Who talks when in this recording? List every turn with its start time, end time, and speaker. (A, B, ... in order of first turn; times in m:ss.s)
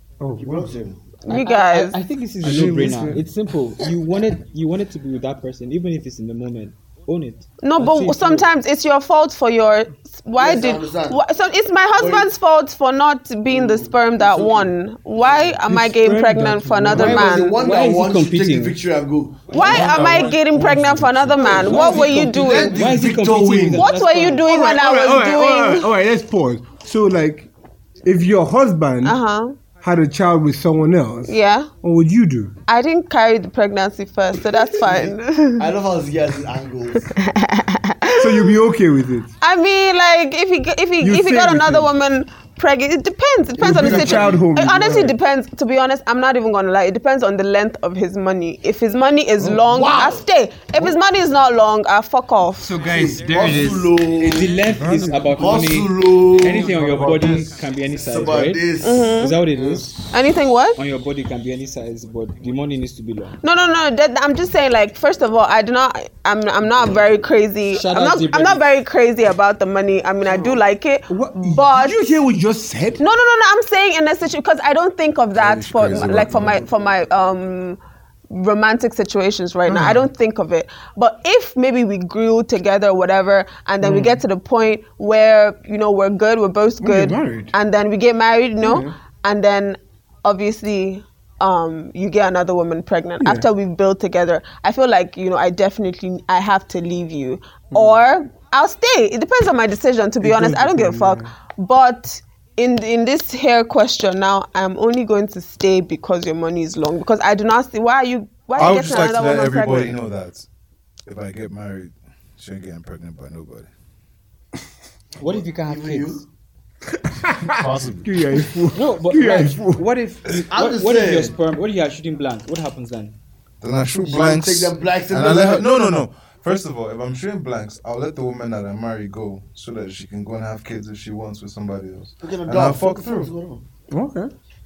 0:00.2-0:00.7 A
0:00.4-0:01.2 B
0:01.2-0:02.0 C
0:01.3-0:08.5 D
0:02.4-0:03.2 A
0:07.6-0:17.6 C
0:10.4-0:11.2 B
0:12.0-0:12.3 B
0:13.5-0:14.7 B
0:15.6-0:17.2 A
0:16.9-0:18.8 D
0:16.9-0:19.8 B
0:19.5-0:22.9 E
0:19.5-0:22.8 C
0:21.4-0:23.9 B
0:21.7-0:24.5 D
0:23.8-0:25.9 C
0:24.4-0:27.5 A
0:28.0-0:29.2 A
0:29.0-0:29.6 C
0:29.8-0:32.5 A
0:31.3-0:31.7 C
0:32.7-0:35.7 C
0:34.7-0:37.1 B
0:37.1-0:38.5 C
0:38.2-0:39.3 A
0:39.4-0:52.8 C
0:41.0-0:41.9 A
0:43.6-0:44.4 B
0:43.6-0:45.1 A
0:49.4-0:50.2 B
0:52.6-1:00.1 D
0:52.8-0:54.6 B
0:54.6-0:55.3 A
0:55.3-0:57.1 B
0:56.4-0:57.7 E
0:58.0-0:59.3 B
0:58.8-0:59.4 C
0:59.5-0:59.9 E
1:00.1-1:00.8 C
1:00.8-1:03.4 D
1:03.4-1:12.1 C
1:07.6-1:08.6 D
1:10.3-1:10.6 A
1:11.1-1:13.0 A
1:13.0-1:17.8 C
1:15.3-1:16.6 E
1:18.3-1:49.9 C
1:19.7-1:20.1 A
1:23.8-1:24.1 A
1:26.8-1:27.5 A
1:28.6-1:28.9 A
1:33.2-1:33.5 A
1:37.7-1:38.0 A
1:40.2-1:41.3 A
1:48.5-1:50.4 E
1:51.0-1:53.7 E
1:55.2-1:56.2 D
1:55.2-1:56.2 B
1:57.0-1:59.8 A
1:57.4-1:58.5 E
1:58.7-2:03.1 D
2:00.5-2:01.4 B
2:03.6-2:13.3 E
2:03.9-2:05.8 B
2:12.2-2:13.6 B
2:13.9-2:14.3 A